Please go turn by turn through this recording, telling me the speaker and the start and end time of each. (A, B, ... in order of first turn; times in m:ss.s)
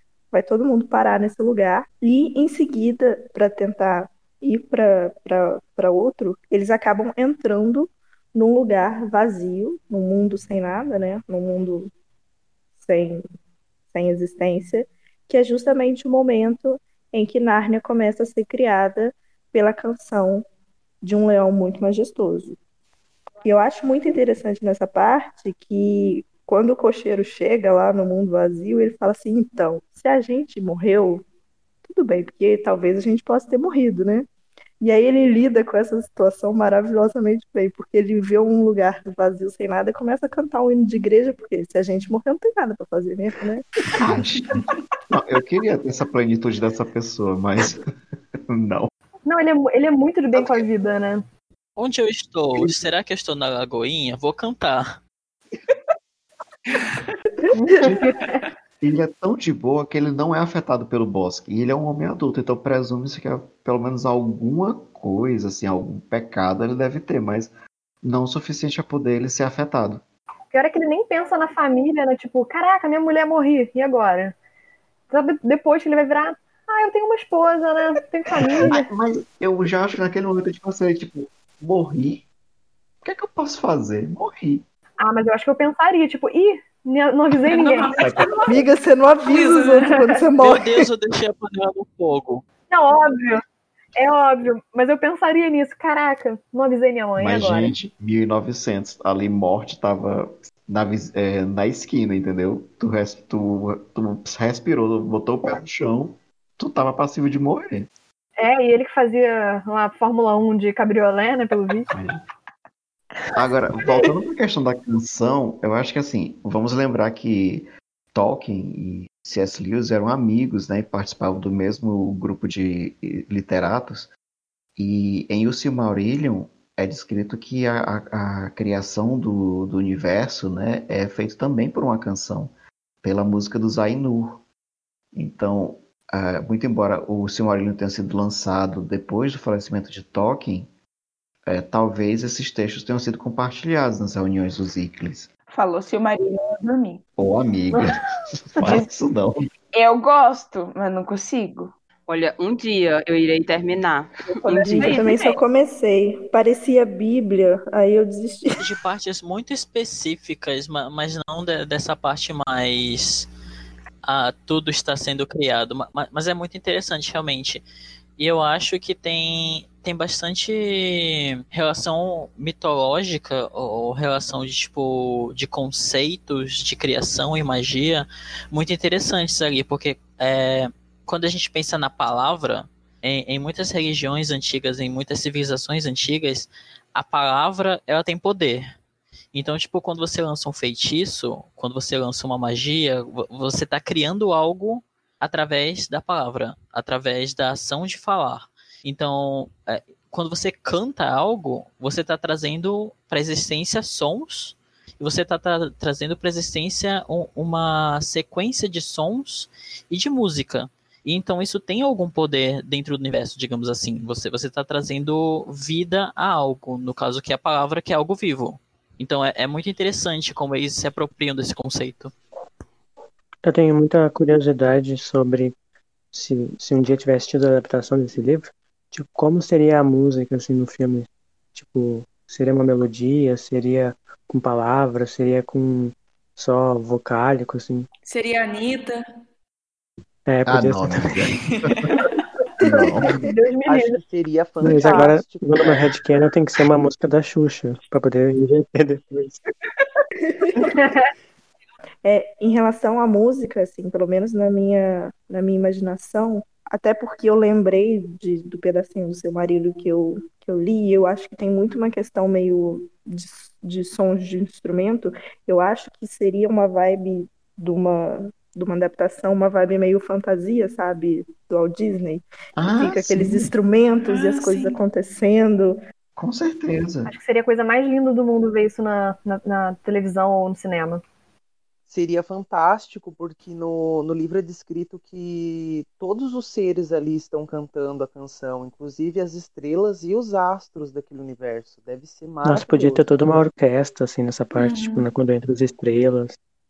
0:00.3-0:11.9 A
0:12.8-0:13.2 A
0:13.9-0:20.4 A
0:21.0-0:22.6 A
0:23.4-0:31.2 A
0:31.8-0:34.3 A
0:34.8-0:43.6 A
0:44.0-0:47.8 B
0:48.5-0:48.9 B
0:49.2-0:51.2 C
0:50.4-0:50.6 B
0:51.8-0:55.0 D
0:56.7-0:57.0 E
0:57.5-0:58.2 C
0:57.7-0:58.1 B
0:58.8-1:10.0 B
1:10.5-1:14.4 C
1:15.1-1:18.9 C
1:18.4-1:22.2 B
1:23.0-1:24.6 B
1:25.0-1:27.9 C
1:27.4-1:28.6 E
1:28.0-1:28.5 B
1:28.5-1:30.8 A
1:29.3-1:29.9 E
1:30.4-1:32.4 D
1:32.7-1:33.4 C
1:34.0-1:37.7 C
1:37.2-1:47.9 B
1:48.4-1:51.9 C
1:51.9-1:52.2 B
1:53.3-2:04.1 B
2:04.8-2:14.4 B
2:15.1-2:20.7 B
2:21.5-2:25.3 B
2:25.5-2:27.0 F
2:27.2-2:29.5 B
2:28.6-2:28.9 F
2:29.7-2:31.7 F
2:32.1-2:35.4 G
2:34.3-2:35.0 F
2:34.8-2:38.5 A
2:38.6-2:43.3 D
2:44.0-2:47.6 D
2:48.2-3:08.7 D
3:09.3-3:42.1 D
3:43.4-3:45.6 H
3:46.1-3:57.9 H
3:58.1-3:59.0 E
4:00.2-4:01.2 H
4:00.5-4:02.0 B
4:01.2-4:02.1 E
4:02.6-4:03.2 B
4:02.8-4:04.0 C
4:03.6-4:05.9 I
4:04.6-4:09.4 H
4:04.6-4:05.1 C
4:10.6-4:11.0 C
4:12.0-4:35.8 A
4:32.6-4:33.5 B
4:34.1-4:34.8 E
4:36.2-4:37.1 B
4:37.0-4:41.0 C
4:41.9-4:53.1 I
4:52.4-4:56.4 H
4:54.5-4:55.0 E